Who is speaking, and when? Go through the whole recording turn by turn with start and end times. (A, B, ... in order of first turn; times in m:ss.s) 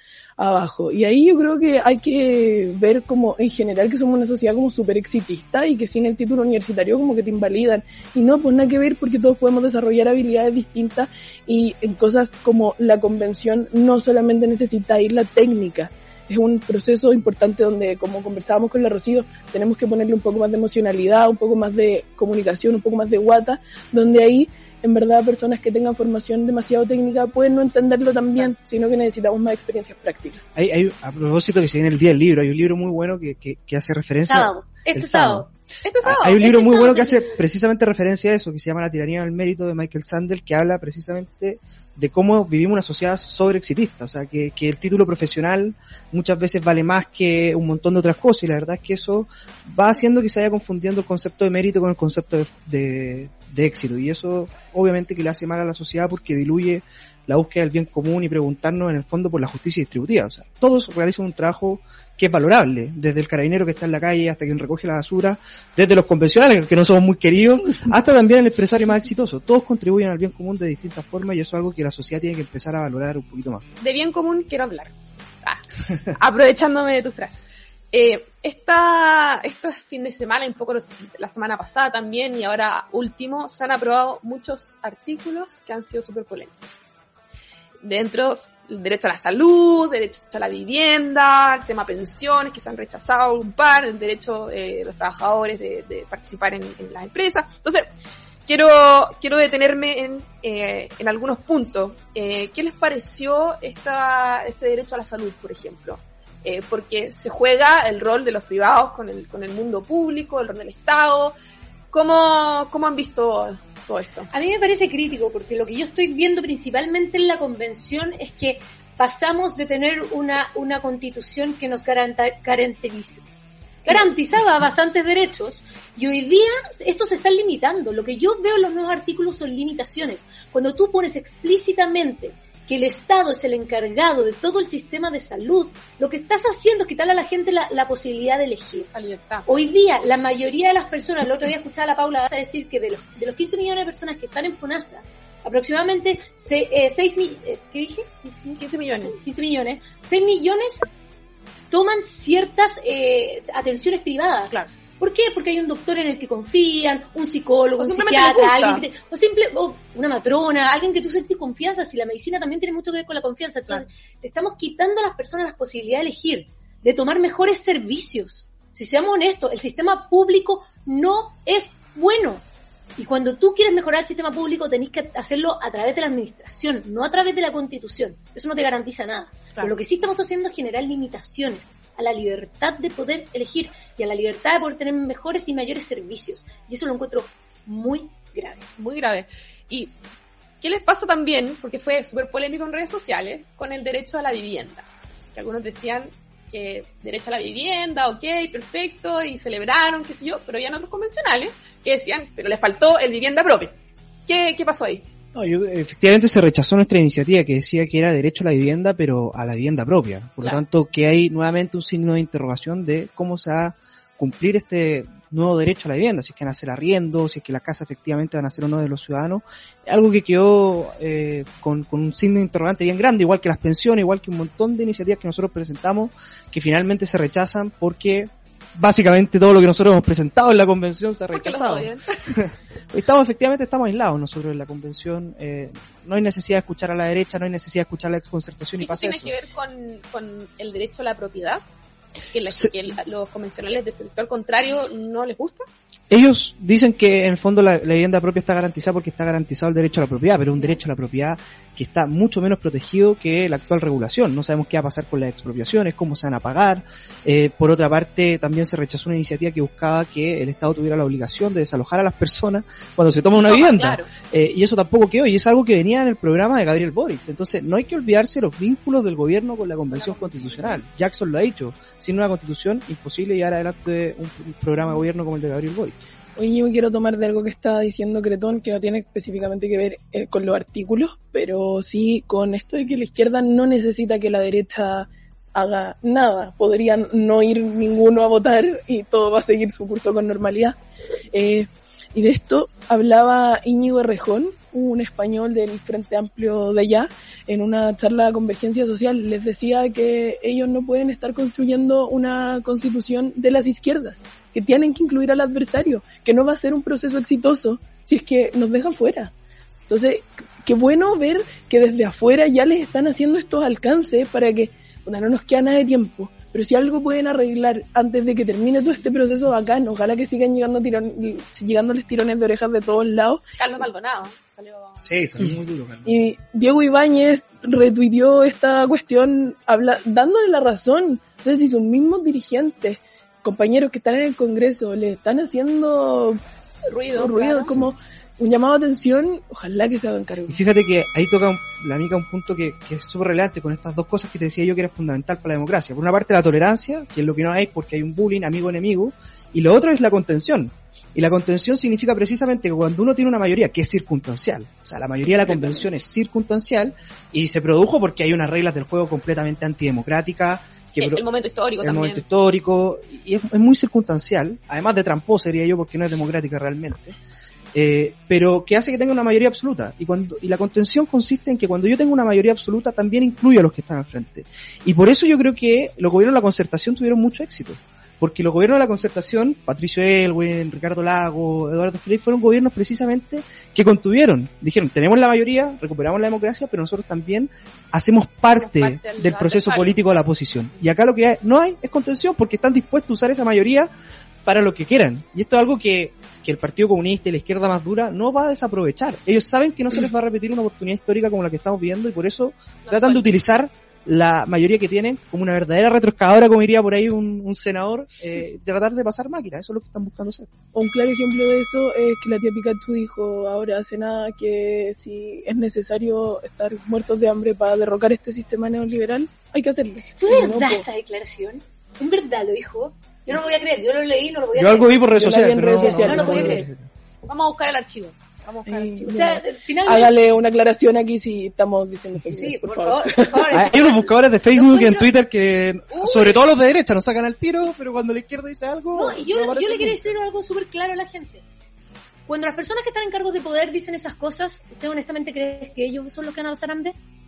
0:00.4-0:30.4 A
0:30.6-0:35.5 B
0:34.2-0:35.5 C
0:35.8-0:37.4 D
0:36.0-1:13.6 B
1:13.8-1:15.6 D
1:16.2-1:26.9 D
1:27.8-1:37.9 D
1:38.5-1:51.4 D
1:51.9-1:54.3 D
1:54.3-2:03.2 C
2:03.8-2:18.9 C
2:18.9-2:19.5 D
2:19.4-2:30.8 C
2:28.6-2:29.2 D
2:31.7-2:52.4 C
2:37.8-2:38.8 D
2:53.0-3:08.7 C
3:08.8-3:09.9 D
3:10.6-3:23.8 D
3:24.3-3:25.0 D
3:25.4-3:59.3 B
3:51.3-3:52.2 D
3:58.8-4:01.6 D
4:02.3-4:05.7 D
4:06.1-4:36.0 B
4:23.4-4:24.1 D
4:29.9-4:30.8 D
4:36.4-4:50.8 A
4:51.3-5:09.3 A
5:09.9-5:23.4 A
5:23.6-5:25.0 D
5:25.0-5:26.3 B
5:26.1-5:36.4 A
5:36.9-5:37.8 D
5:37.1-5:40.6 A
5:40.5-6:01.2 B
6:01.0-6:02.2 D
6:01.8-6:07.2 B
6:07.7-6:33.9 B
6:28.5-6:29.9 D
6:34.4-6:50.5 B
6:42.8-6:43.4 D
6:50.7-7:00.9 A
7:00.2-7:05.0 C
7:04.6-7:06.9 B
7:05.1-7:06.6 A
7:05.7-7:06.7 C
7:07.3-7:08.2 D
7:08.5-7:09.0 B
7:08.6-7:13.7 A
7:09.0-7:10.1 C
7:12.3-7:15.1 C
7:13.5-7:20.1 B
7:15.9-7:16.4 D
7:18.9-7:21.4 C
7:22.3-7:27.0 C